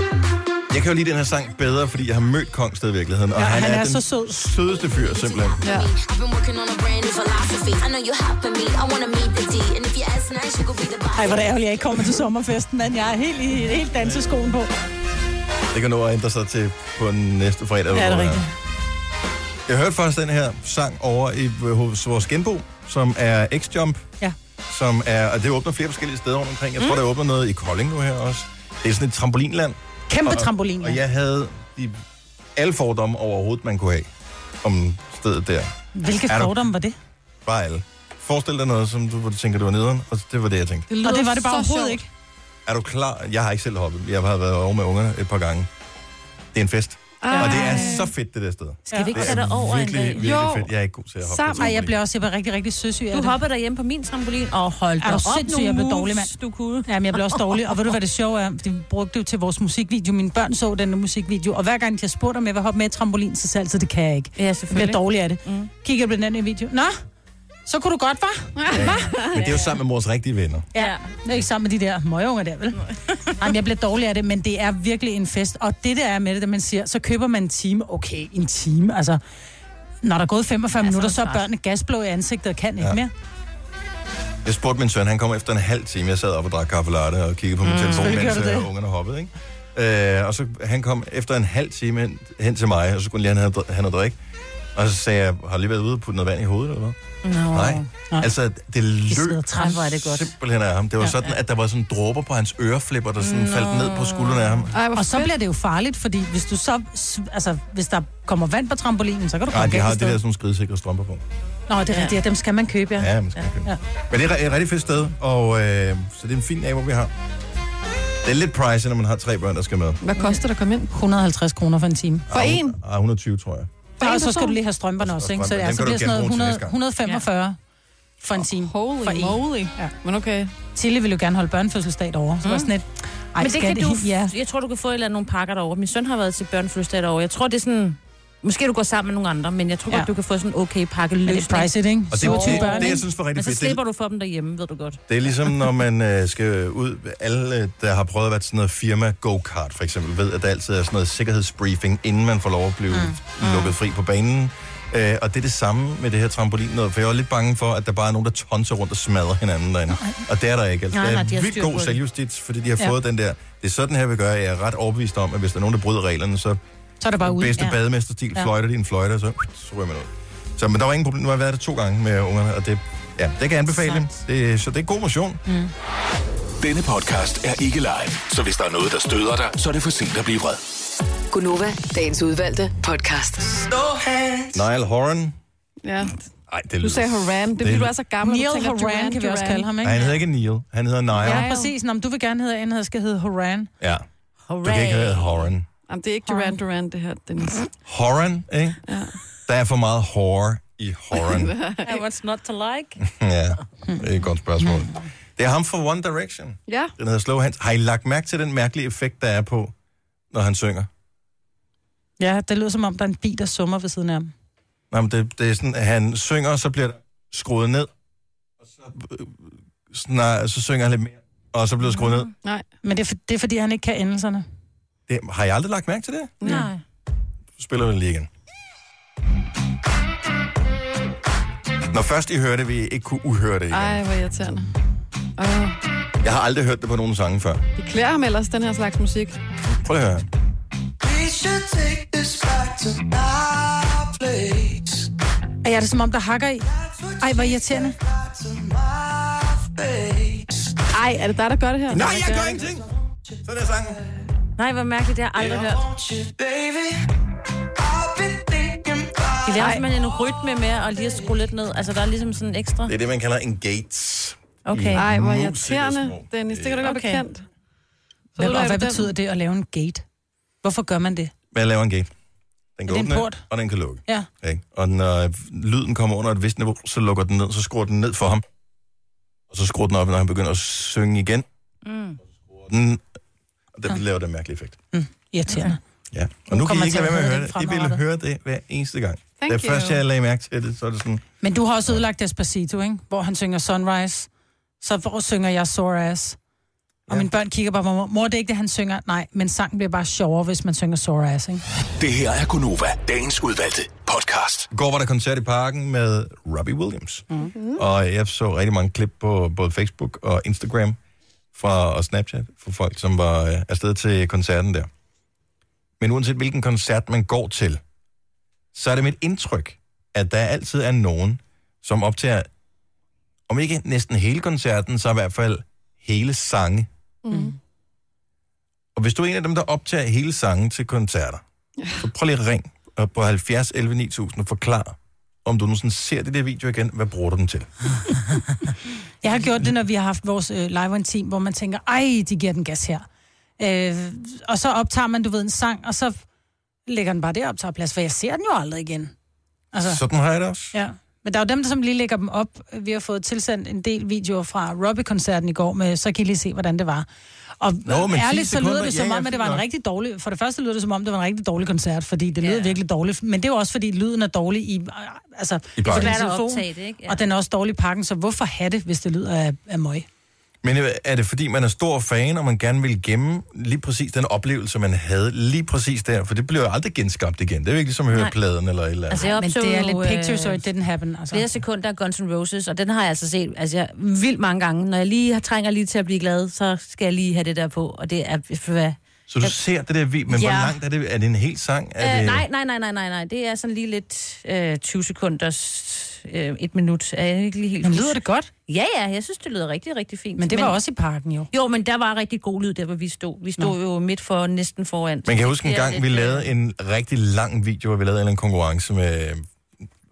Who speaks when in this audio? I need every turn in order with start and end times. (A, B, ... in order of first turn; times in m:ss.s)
0:00.7-0:05.6 A
0:03.4-0:04.5 B
0:04.9-0:11.6 C
0:05.6-0:05.9 D
0:11.1-0:14.7 B
0:15.7-0:18.4 A
0:17.9-0:18.5 B
0:19.7-0:24.1 A
0:24.7-0:32.0 A
0:30.1-0:31.0 B
0:32.6-0:34.1 A
0:34.6-0:35.7 A
0:36.0-0:37.0 B
0:36.2-0:36.7 A
0:37.4-0:40.9 A
0:40.9-0:42.0 D
0:41.0-0:42.1 B
0:42.7-0:45.7 A
0:46.5-0:52.0 A
0:47.2-0:48.1 D
0:47.3-0:48.0 B
0:48.9-0:49.3 B
0:48.9-0:50.3 E
0:50.2-0:50.7 D
0:51.2-0:51.8 D
0:51.5-0:53.4 B
0:53.1-0:57.9 E
0:55.0-0:56.4 B
0:56.9-1:07.0 B
1:04.4-1:05.7 E
1:07.7-1:09.1 B
1:08.6-1:09.4 D
1:08.7-1:10.7 A
1:10.7-1:19.2 B
1:10.8-1:11.1 E
1:12.8-1:13.4 E
1:20.0-1:23.1 B
1:20.8-1:21.4 E
1:24.4-1:34.2 A
1:27.6-1:28.3 E
1:28.0-1:28.7 B
1:34.8-1:37.0 A
1:37.2-1:37.8 E
1:37.5-1:44.7 A
1:39.1-1:39.8 B
1:39.6-1:40.3 E
1:41.0-1:41.3 E
1:43.2-1:44.7 E
1:44.7-1:45.3 D
1:45.0-1:50.2 B
1:49.5-1:51.2 A
1:51.7-1:53.1 B
1:51.9-1:52.2 E
1:53.0-1:57.1 A
1:58.2-2:00.0 A
2:00.0-2:00.9 D
2:00.9-2:02.3 B
2:02.3-2:03.7 A
2:02.3-2:02.8 D
2:04.0-2:04.6 D
2:04.0-2:07.6 B
2:05.0-2:06.8 A
2:08.2-2:09.9 B
2:08.4-2:10.5 D
2:10.8-2:14.3 B
2:13.4-2:25.0 E
2:21.2-2:23.0 B
2:22.1-2:23.8 A
2:25.1-2:46.6 A
2:33.4-2:33.8 E
2:40.9-2:42.0 E
2:47.0-2:47.7 B
2:47.2-2:55.4 A
2:53.8-2:54.1 E
2:55.5-2:55.7 B
2:56.6-3:00.6 F
3:01.3-3:03.7 G
3:04.5-3:05.4 A
3:05.8-3:06.3 D
3:06.5-3:07.9 A
3:06.8-3:09.7 D
3:08.2-3:10.1 B
3:09.8-3:11.5 A
3:11.2-3:11.7 D
3:11.2-3:13.7 B
3:14.5-3:15.5 E
3:14.6-3:15.6 A
3:15.9-3:17.7 D
3:16.3-3:16.6 B
3:17.9-3:18.8 A
3:18.9-3:19.2 D
3:19.5-3:21.5 A
3:21.2-3:22.0 D
3:21.8-3:23.0 E
3:23.0-3:29.7 A
3:26.7-3:26.9 D
3:30.3-3:30.9 A
3:32.2-3:34.3 B
3:34.9-3:37.9 A
3:38.6-3:42.3 A
3:42.8-3:44.5 B
3:45.1-3:46.4 A
3:46.4-3:46.7 D
3:46.4-3:46.8 E
3:47.6-3:48.3 A
3:51.9-3:54.0 A
3:53.7-3:54.7 D
3:55.4-3:55.8 D
3:56.2-3:57.6 A
3:57.8-3:59.4 D
3:59.7-4:00.3 A
4:01.1-4:04.8 C
4:05.6-4:06.7 B
4:07.2-4:08.0 B
4:08.3-4:10.5 C
4:10.9-4:12.4 D
4:11.9-4:12.6 E
4:11.9-4:12.9 A
4:13.4-4:14.0 A
4:14.6-4:15.9 E
4:15.4-4:15.6 A
4:16.0-4:16.8 C
4:18.0-4:19.5 C
4:19.4-4:22.9 E
4:22.9-4:26.8 A
4:24.7-4:25.0 E
4:25.0-4:27.5 D
4:26.8-4:27.2 E
4:28.4-4:29.1 D
4:28.4-4:30.0 B
4:30.6-4:31.3 B
4:31.5-4:32.1 A
4:32.8-4:38.4 A
4:32.9-4:33.4 B
4:39.5-4:41.4 A
4:41.8-4:42.2 E
4:42.6-4:43.0 A
4:43.7-4:44.8 A
4:44.9-4:45.8 B
4:45.5-4:45.8 E
4:46.1-4:51.2 A
4:46.5-4:48.0 B
4:49.4-4:50.0 D
4:51.4-4:54.3 B
4:54.8-4:56.4 B
4:57.1-5:01.6 B
5:02.0-5:04.7 F
5:04.7-5:11.0 A
5:07.5-5:07.8 D
5:11.5-5:14.9 A
5:16.0-5:17.8 A
5:18.7-5:22.5 A
5:23.5-5:26.9 A
5:27.2-5:27.6 D
5:29.0-5:31.4 A
5:32.0-5:37.7 A
5:39.2-5:43.1 B
5:43.6-5:46.2 B
5:46.9-5:49.1 B
5:49.7-5:50.0 B
5:49.8-5:50.8 A
5:50.7-5:57.1 B
5:57.6-6:10.1 B
5:57.9-5:59.6 A
6:02.4-6:02.8 E
6:05.8-6:06.2 A
6:05.8-6:07.2 E
6:10.6-6:19.3 A
6:19.1-6:20.6 E
6:19.2-6:21.5 B
6:21.3-6:29.0 E
6:29.3-6:32.4 A
6:30.3-6:30.8 B
6:32.0-6:40.8 E
6:37.8-6:38.5 B
6:40.4-6:41.5 B
6:41.5-6:46.5 E
6:45.2-6:49.4 A